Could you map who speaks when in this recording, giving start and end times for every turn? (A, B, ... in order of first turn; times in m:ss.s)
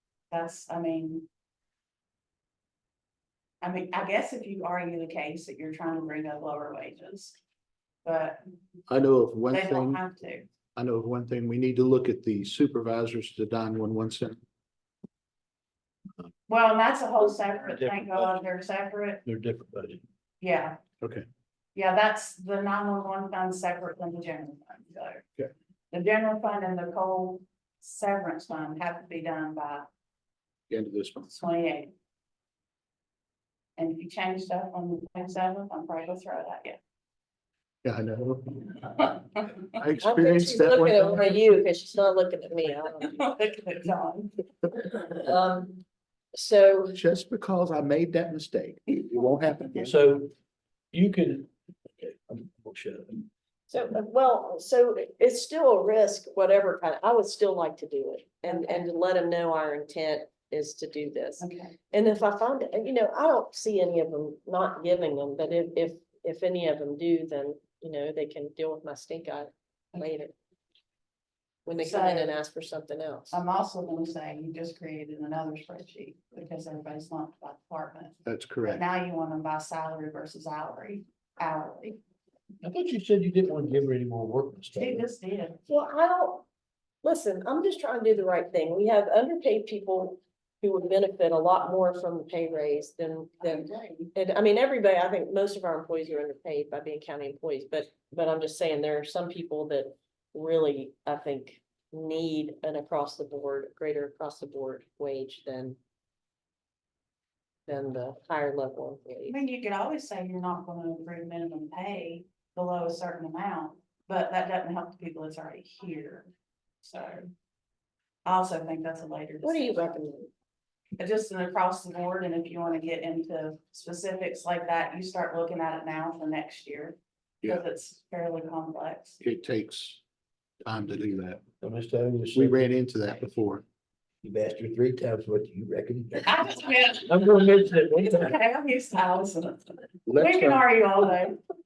0:00.3-0:01.2 A
0:03.6-0:07.4 A
0:08.0-0:08.4 A
0:08.9-0:10.0 B
0:09.5-0:10.5 A
0:10.7-0:14.4 B
0:16.5-0:19.2 A
0:17.4-0:18.4 C
0:19.2-0:20.0 C
0:20.4-0:20.8 A
0:21.0-0:21.2 B
0:21.7-0:25.2 A
0:25.9-0:29.9 A
0:30.7-0:31.3 B
0:31.2-0:31.9 A
0:33.8-0:36.8 A
0:37.8-0:39.1 B
0:39.7-0:41.3 B
0:40.0-0:43.2 D
0:43.0-0:44.4 A
0:45.0-0:45.8 D
0:46.3-0:47.0 D
0:47.0-0:50.0 B
0:49.8-0:50.3 C
0:50.9-0:53.2 C
0:53.7-1:10.3 D
0:58.5-0:58.8 A
1:01.4-1:01.8 A
1:11.6-1:13.4 D
1:11.8-1:12.4 A
1:13.3-1:22.0 A
1:18.2-1:18.8 B
1:22.6-1:25.0 C
1:24.7-1:25.6 A
1:25.7-1:26.4 D
1:27.0-1:45.8 D
1:33.4-1:34.1 A
1:47.7-1:49.4 D
1:49.3-1:56.3 A
1:56.8-1:57.3 A
1:58.2-1:59.9 A
1:59.4-2:00.3 D
2:01.0-2:09.2 A
2:09.2-2:10.0 B
2:10.6-2:11.4 B
2:11.6-2:12.6 C
2:12.3-2:13.6 B
2:14.2-2:16.5 C
2:16.2-2:17.6 A
2:17.0-2:18.3 C
2:18.1-2:21.4 A
2:20.1-2:20.6 B